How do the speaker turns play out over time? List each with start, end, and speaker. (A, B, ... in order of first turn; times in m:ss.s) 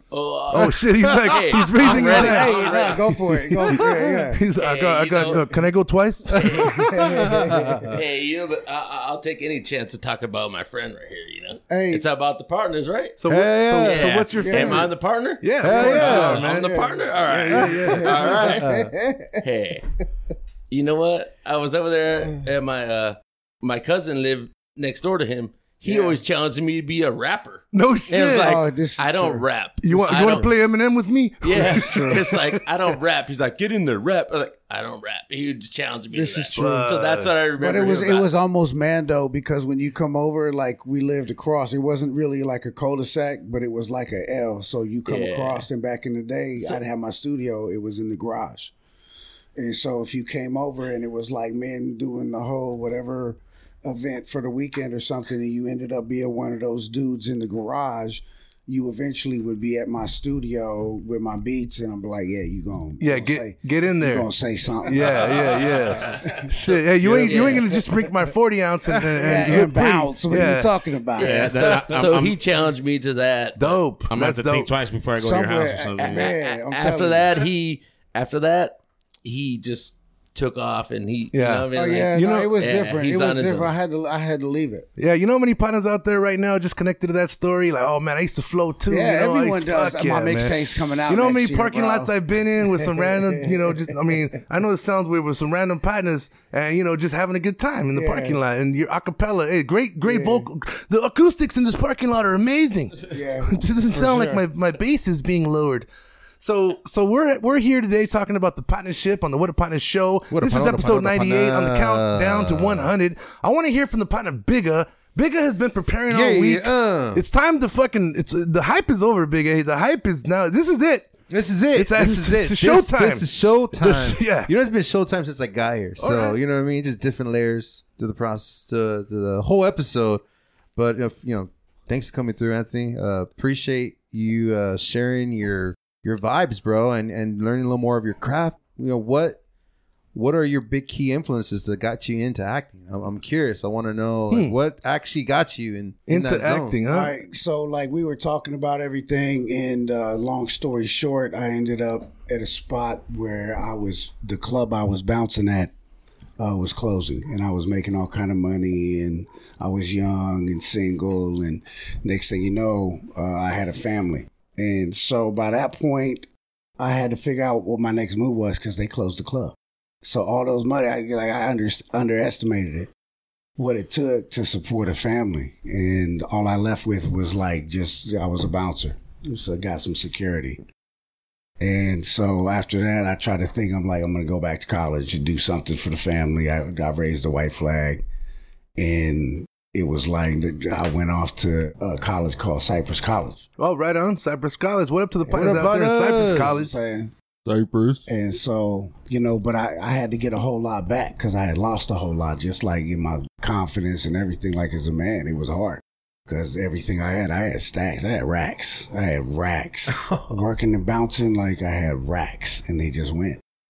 0:00.1-0:03.2 A
0:00.5-0:02.8 B
0:01.8-0:04.4 C
0:03.7-0:06.7 B
0:04.6-0:05.6 A
0:06.3-0:13.2 A
0:06.7-0:07.9 C
0:07.4-0:07.8 D
0:11.7-0:12.0 C
0:13.2-0:14.9 B
0:13.3-0:14.3 D
0:13.8-0:18.8 A
0:14.4-0:14.9 C
0:15.4-0:18.4 B
0:15.6-0:16.4 D
0:15.6-0:17.0 C
0:17.9-0:19.4 C
0:18.4-0:18.9 D
0:19.4-0:19.9 A
0:20.7-0:30.5 A
0:25.8-0:26.2 C
0:27.7-0:28.6 B
0:28.4-0:30.4 C
0:29.8-0:32.7 B
0:31.4-0:38.3 A
0:31.7-0:32.1 C
0:36.1-0:36.8 C
0:36.6-0:37.3 B
0:37.6-0:48.7 C
0:45.1-0:45.7 A
0:49.6-1:05.2 C
1:03.0-1:04.3 B
1:04.8-1:10.9 B
1:05.3-1:06.4 A
1:07.1-1:07.8 A
1:09.2-1:11.8 C
1:11.2-1:12.4 E
1:11.2-1:13.8 A
1:13.6-1:14.7 B
1:14.1-1:16.3 E
1:15.2-1:17.4 C
1:16.0-1:23.7 A
1:21.3-1:22.5 B
1:21.7-1:24.9 C
1:25.0-1:45.9 B
1:28.9-1:34.4 C
1:37.9-1:38.4 C
1:40.0-1:40.5 C
1:43.1-1:44.4 C
1:46.4-2:01.1 B
1:50.3-1:52.9 D
1:56.1-1:57.2 D
2:01.3-2:10.2 D
2:01.7-2:04.5 B
2:06.0-2:06.4 B
2:10.8-2:19.4 D
2:20.1-2:26.8 D
2:26.1-2:27.1 B
2:26.9-2:35.7 C
2:36.4-2:52.9 C
2:53.6-3:00.6 C
3:01.6-3:08.0 C
3:08.8-3:13.4 C
3:13.6-3:16.7 B
3:15.3-3:15.7 C
3:15.3-3:16.6 D
3:16.3-3:17.1 C
3:17.5-3:18.1 D
3:18.1-3:33.4 C